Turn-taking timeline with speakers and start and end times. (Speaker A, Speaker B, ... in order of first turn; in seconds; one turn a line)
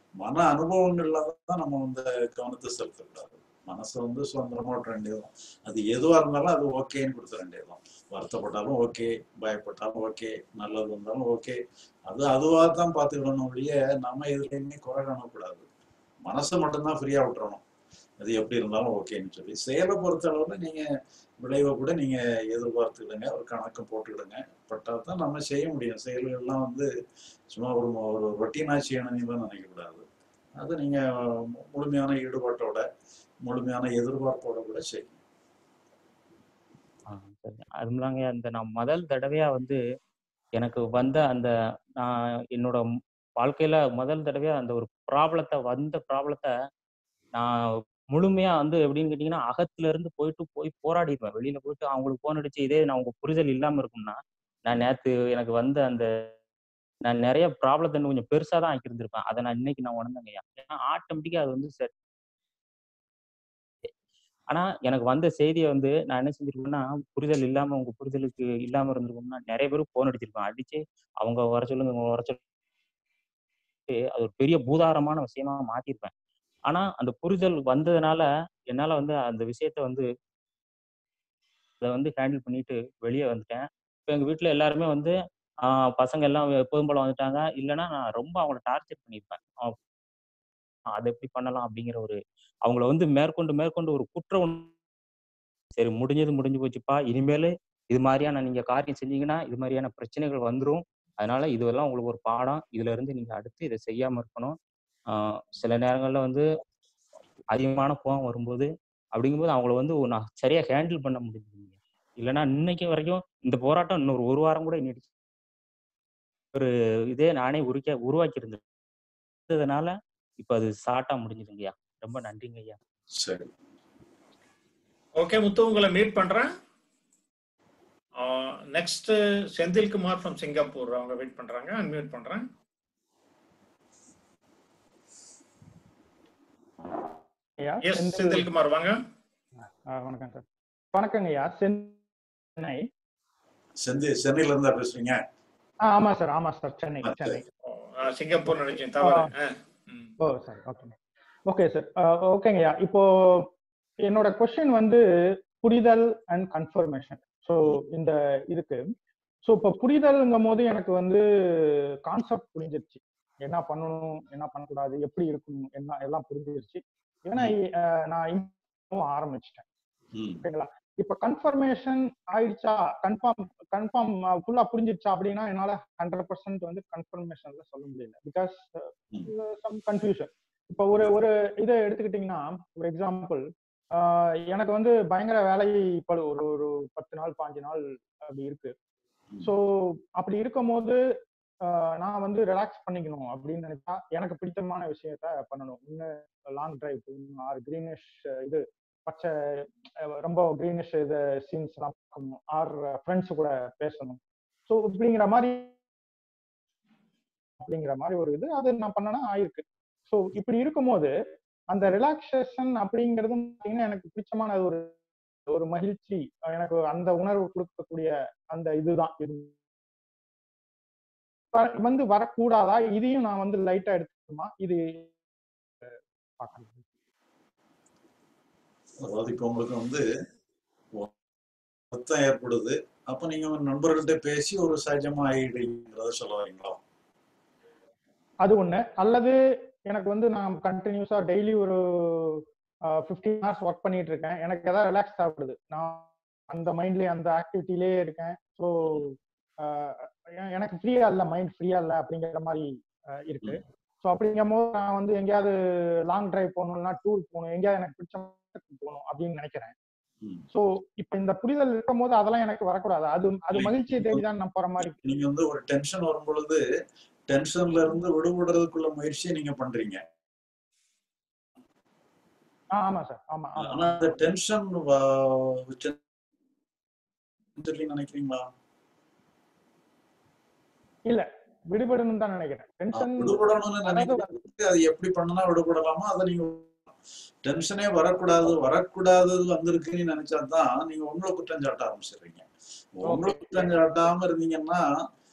Speaker A: 0.2-15.7
Speaker A: 16.2-17.6
Speaker A: 18.2-20.8
Speaker A: 21.4-26.9
Speaker A: 27.5-30.0
Speaker A: 30.6-31.0
Speaker A: 31.7-32.8
Speaker A: 33.5-35.2
Speaker B: 37.1-39.8
Speaker B: 40.6-42.9
Speaker B: 43.4-46.5
Speaker B: 48.1-56.3
Speaker B: 57.0-61.9
Speaker B: 64.5-72.4
Speaker B: 73.9-76.1
Speaker B: 76.7-80.1
Speaker B: 81.8-89.8
Speaker B: 90.9-94.7
Speaker B: 95.8-104.6
Speaker B: 105.1-106.5
Speaker B: 107.5-115.1
Speaker B: 116.5-118.6
Speaker B: 119.5-122.8
Speaker A: 123.2-123.5
Speaker C: 125.2-126.5
Speaker C: 128.2-132.5
Speaker D: 137.6-138.5
Speaker C: 137.9-139.0
Speaker D: 139.6-142.0
Speaker D: 142.6-142.8
Speaker A: 143.8-145.2
Speaker D: 145.9-147.5
Speaker A: 147.0-147.4
Speaker C: 147.7-150.1
Speaker D: 148.5-149.3
Speaker D: 150.2-151.0
Speaker D: 151.5-153.5
Speaker D: 154.1-155.0
Speaker D: 155.6-158.8
Speaker D: 159.5-161.2
Speaker D: 162.1-169.6
Speaker A: 170.2-170.4
Speaker D: 170.4-188.7
Speaker D: 190.2-191.0
Speaker D: 191.7-205.7
Speaker D: 207.6-211.1
Speaker D: 211.7-214.9
Speaker D: 215.5-219.5
Speaker D: 221.5-225.1
Speaker D: 226.4-226.8
Speaker A: 229.0-230.0
Speaker A: 231.9-236.8
Speaker D: 238.4-239.3
Speaker D: 239.9-242.4
Speaker D: 243.0-252.7
Speaker D: 253.2-255.5
Speaker D: 256.1-259.8
Speaker D: 260.5-265.0
Speaker A: 263.5-264.2
Speaker A: 264.8-266.6
Speaker A: 267.3-270.0
Speaker D: 272.8-274.1
Speaker A: 273.6-276.0
Speaker A: 277.6-278.5
Speaker D: 281.1-284.3
Speaker A: 282.9-286.7
Speaker A: 287.4-292.5
Speaker A: 293.0-294.8
Speaker D: 293.1-293.8